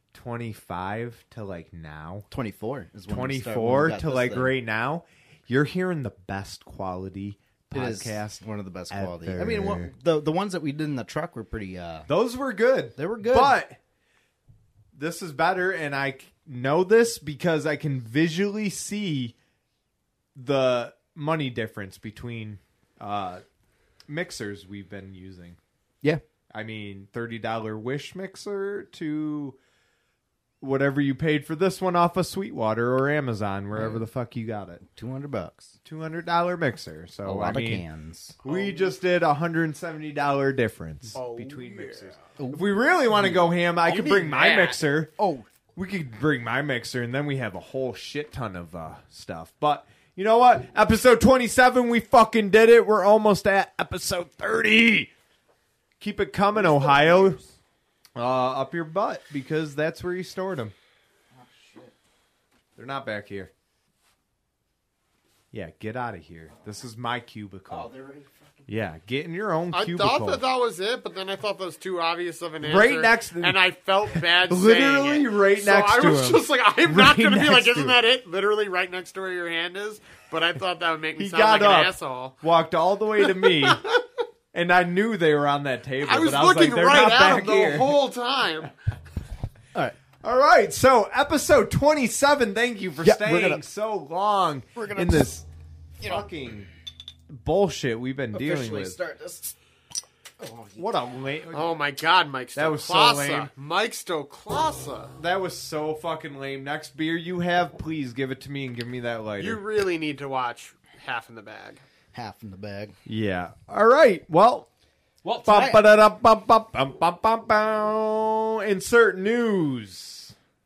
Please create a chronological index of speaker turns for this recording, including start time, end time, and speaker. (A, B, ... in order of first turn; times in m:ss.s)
0:00.1-0:02.3 A
0:02.3-0:04.5 B
0:03.1-0:09.9 A
0:07.7-0:12.1 B
0:12.1-0:13.8 A
0:13.0-0:13.6 B
0:14.9-0:19.4 A
0:20.4-0:23.4 A
0:24.1-0:25.6 A
0:26.5-0:29.6 A
0:30.6-0:34.8 A
0:33.8-0:34.0 B
0:34.8-0:35.8 B
0:35.8-0:37.8 A
0:37.2-0:38.4 B
0:38.4-0:39.0 C
0:38.4-0:45.1 A
0:41.2-0:42.2 C
0:42.4-0:43.5 B
0:43.8-0:44.8 C
0:45.2-0:45.5 B
0:45.8-0:55.1 A
0:56.0-0:57.4 A
0:56.6-0:57.6 B
0:58.2-1:00.7 A
1:01.3-1:01.9 B
1:02.8-1:03.5 A
1:05.5-1:07.9 A
1:07.7-1:08.7 B
1:08.7-1:10.4 A
1:09.7-1:22.4 C
1:12.6-1:13.6 A
1:14.1-1:18.0 A
1:21.2-1:23.8 A
1:23.2-1:24.0 C
1:24.5-1:28.0 A
1:26.0-1:28.7 C
1:30.2-1:35.5 A
1:33.0-1:33.6 B
1:34.8-1:35.3 C
1:36.0-1:36.7 A
1:36.0-1:36.3 C
1:37.3-1:39.0 A
1:38.3-1:39.5 B
1:40.4-1:40.9 B
1:40.8-1:41.7 A
1:41.5-1:45.1 C
1:42.6-1:43.5 A
1:45.2-1:49.6 A
1:49.4-1:51.8 C
1:52.1-1:53.0 B
1:53.1-1:54.7 A
1:55.2-1:55.8 B
1:55.4-2:00.3 A